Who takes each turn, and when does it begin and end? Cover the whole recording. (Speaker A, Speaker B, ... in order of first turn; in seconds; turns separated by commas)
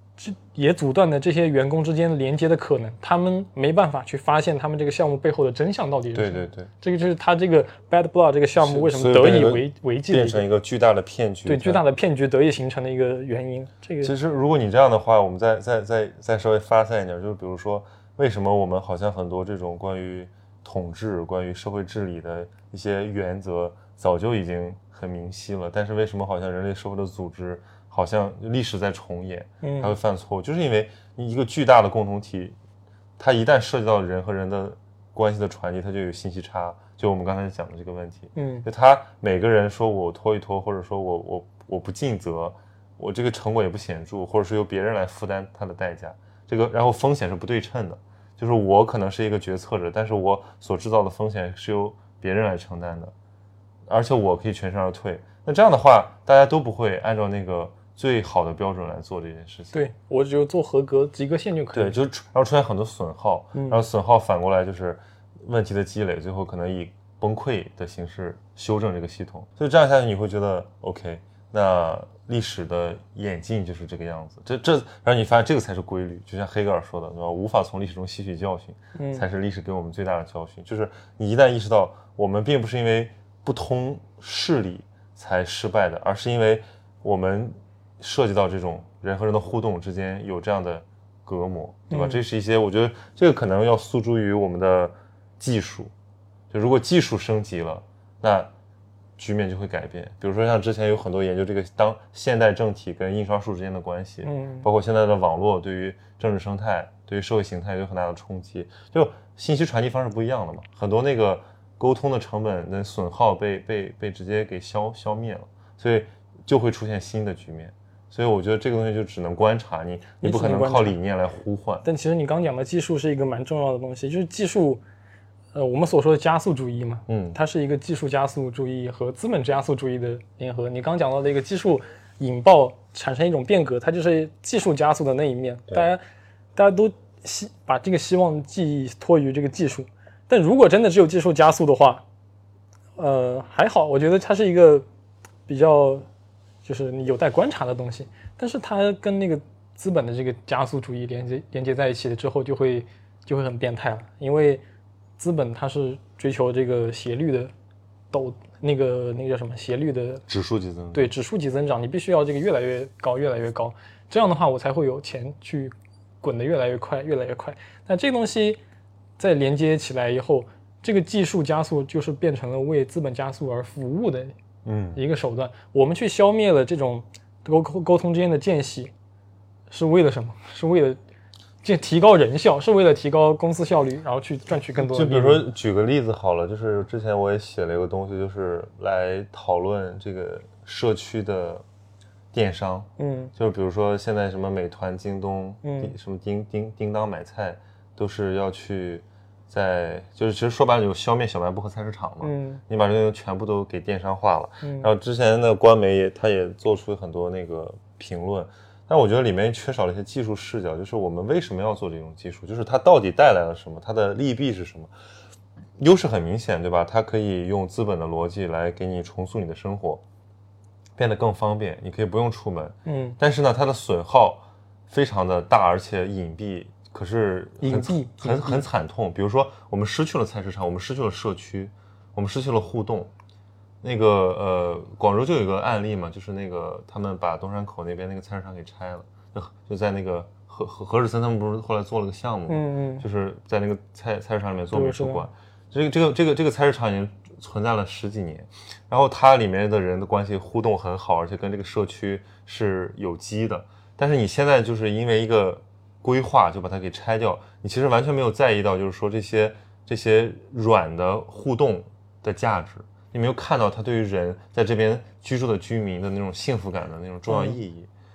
Speaker A: 0.2-10.4, Speaker B: 6.1-6.7, Speaker B: 8.6-11.8, Speaker A: 11.4-14.1, Speaker B: 14.0-32.6, Speaker A: 29.6-30.0, Speaker B: 33.2-53.1, Speaker A: 38.4-38.7, Speaker B: 53.9-59.8, Speaker A: 59.7-62.0, Speaker B: 61.7-95.9, Speaker A: 63.5-63.8, Speaker A: 79.0-79.3, Speaker A: 91.9-92.2, Speaker B: 96.5-98.5, Speaker B: 99.2-121.8, Speaker A: 104.2-104.7, Speaker A: 120.2-121.0, Speaker A: 121.8-124.8, Speaker A: 125.5-136.0, Speaker B: 127.1-127.4, Speaker A: 136.6-142.0, Speaker A: 143.0-144.8, Speaker A: 145.5-146.1, Speaker A: 146.6-154.6, Speaker A: 155.2-157.5, Speaker A: 158.1-160.2, Speaker B: 160.3-161.1, Speaker A: 160.9-168.6, Speaker A: 169.2-174.3, Speaker B: 174.7-175.0, Speaker A: 174.9-178.9, Speaker A: 179.7-181.0, Speaker A: 181.6-185.4, Speaker B: 184.8-191.7, Speaker B: 192.3-214.9, Speaker A: 193.0-193.3, Speaker A: 195.6-195.9, Speaker A: 202.2-202.6, Speaker A: 204.6-204.9, Speaker B: 215.8-220.0, Speaker B: 221.0-233.1, Speaker A: 222.8-223.2, Speaker A: 227.6-228.6, Speaker B: 233.8-267.9, Speaker A: 242.5-243.1, Speaker A: 244.7-245.3, Speaker A: 267.3-267.6